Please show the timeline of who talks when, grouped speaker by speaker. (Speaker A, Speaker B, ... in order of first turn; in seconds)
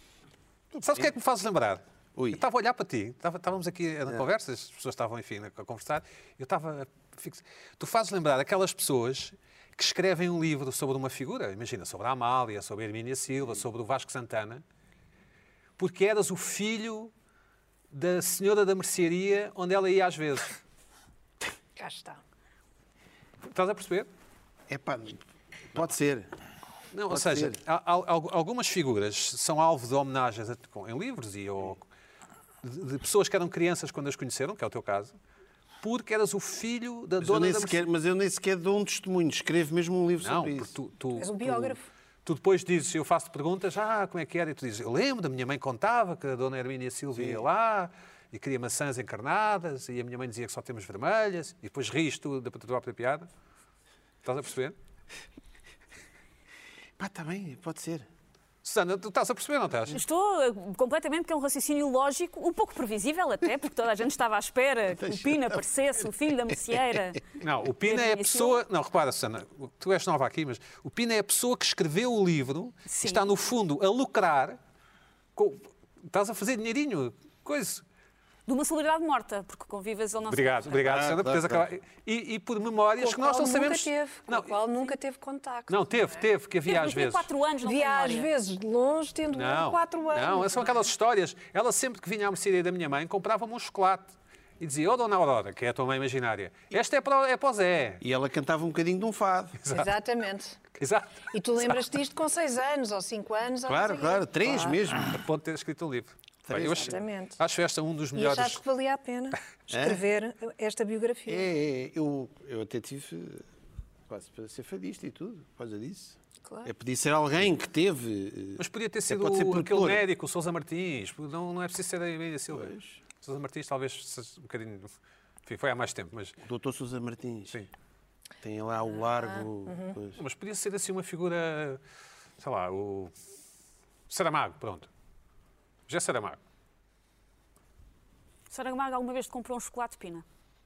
Speaker A: 0.7-1.1, 2.1-2.4, 24.7-25.2, 25.7-26.3, 27.1-27.6, 37.2-40.8, 47.2-47.4, 57.0-58.1, 65.0-65.6, 66.7-67.0, 80.9-81.7, 98.0-99.7, 103.7-105.2, 106.5-107.0, 109.7-110.0, 111.3-113.5, 114.1-120.0, 122.5-123.0, 126.4-127.6, 128.4-130.2
Speaker B: 0.8-14.6, 15.8-17.1, 17.9-20.5, 23.4-24.1, 26.9-31.9, 32.6-35.2, 35.8-37.9, 40.2-41.7, 42.2-53.3, 54.2-54.8, 58.6-60.0, 67.4-74.6, 75.4-77.8, 80.3-84.5, 85.7-87.3, 89.3-98.0, 99.6-99.9, 100.8-101.8, 105.0-108.6, 118.6-124.9, 125.5-126.4, 130.2-131.8, 132.4-133.1, 134.1-134.9, 135.9-136.4
Speaker C: 21.8-22.2, 41.2-41.8, 83.0-85.9, 87.6-90.8, 99.7-100.6, 101.3-104.8, 106.8-107.4, 108.2-111.5, 116.5-116.7, 129.2-130.0
Speaker D: 59.9-67.3, 67.8-68.6, 72.9-73.2, 78.5-80.9, 86.7-88.3, 138.5-140.2